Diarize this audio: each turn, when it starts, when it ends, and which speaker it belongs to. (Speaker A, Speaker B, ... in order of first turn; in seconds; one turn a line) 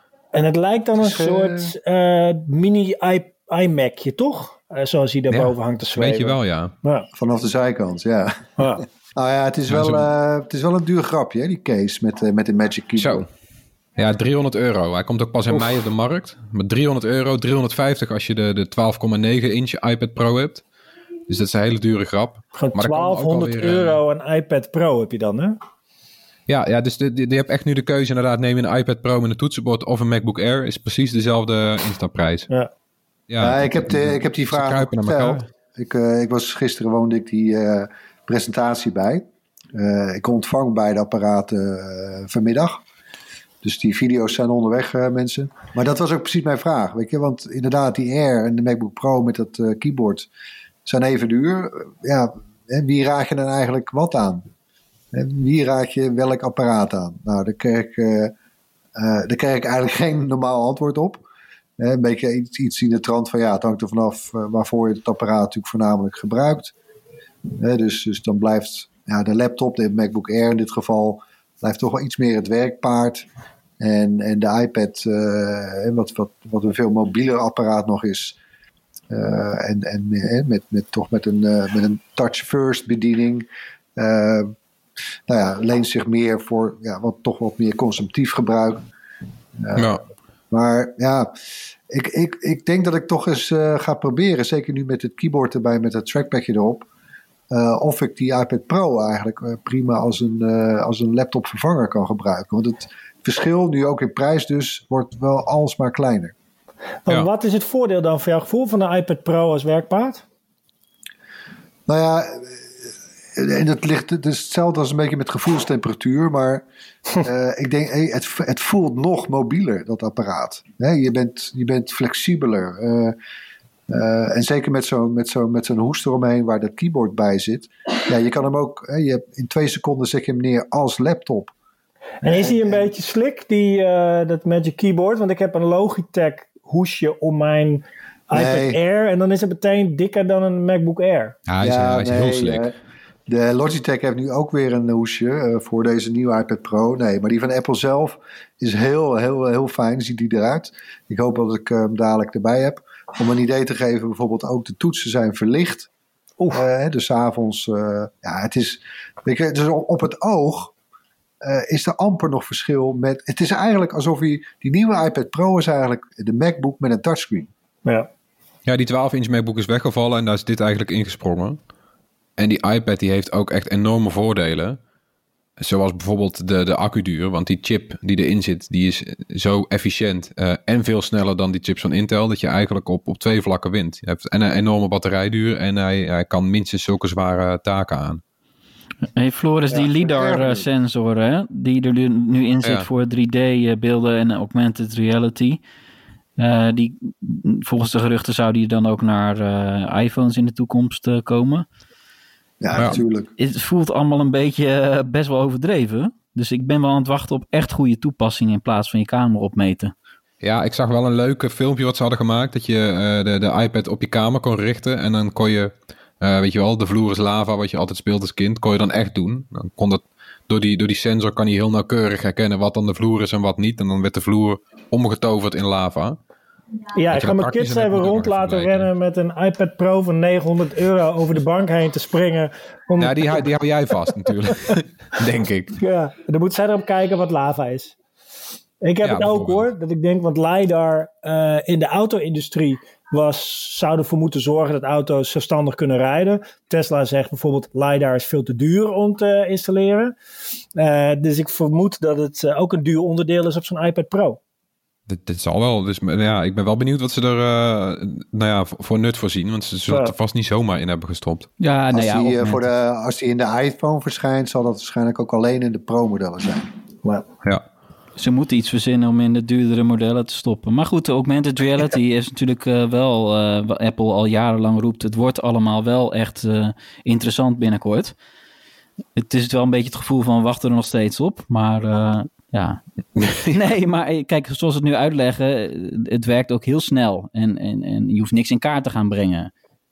Speaker A: 0.3-7.1
Speaker B: 1.0-1.7
Speaker C: 5.3-6.7
Speaker B: 7.1-13.3
Speaker A: 8.6-8.8
Speaker C: 9.7-10.1
Speaker C: 12.9-13.2
Speaker C: 13.9-20.6
Speaker C: 21.3-24.0
Speaker A: 22.6-25.6
Speaker C: 26.5-32.5
Speaker C: 33.3-35.5
Speaker B: 33.4-42.8
Speaker B: 43.6-50.3
Speaker B: 50.8-54.5
Speaker B: 55.1-58.3
Speaker B: 58.9-61.2
Speaker B: 61.8-66.7
Speaker B: 67.5-73.2
Speaker B: 73.8-78.4
Speaker B: 79.1-84.5
Speaker B: 85.3-88.8
Speaker B: 89.6-90.0
Speaker C: 89.8-90.0
Speaker B: 90.5-91.3
Speaker B: 91.9-96.9
Speaker B: 97.5-106.3
Speaker A: 107.0-110.2
Speaker B: 111.8-112.7
Speaker B: 113.3-116.6
Speaker B: 117.2-123.2
Speaker B: 123.9-131.5
Speaker A: 132.2-141.3
Speaker B: 132.2-132.8
Speaker B: 138.3-138.8
Speaker C: 141.5-142.7
Speaker B: 141.6-142.7
Speaker B: 143.3-155.9
Speaker B: 156.5-160.7
Speaker B: 161.4-167.5
Speaker C: 168.7-171.6
Speaker C: 172.4-174.8
Speaker C: 175.6-188.2
Speaker D: 189.2-195.6
Speaker B: 189.7-190.7
Speaker D: 196.4-201.7
Speaker B: 202.6-203.3
Speaker D: 202.7-209.9
Speaker C: 210.4-226.2
Speaker A: 226.9-233.5
Speaker C: 227.1-228.9
Speaker C: 233.0-235.8
Speaker A: 235.8-237.9
Speaker A: 238.8-250.1
Speaker C: 239.0-239.7
Speaker A: 250.8-254.4
Speaker C: 255.1-261.5
Speaker A: 259.9-260.1
Speaker D: 261.6-262.6
Speaker B: 261.9-266.7
Speaker D: 268.1-278.1
Speaker D: 279.1-289.5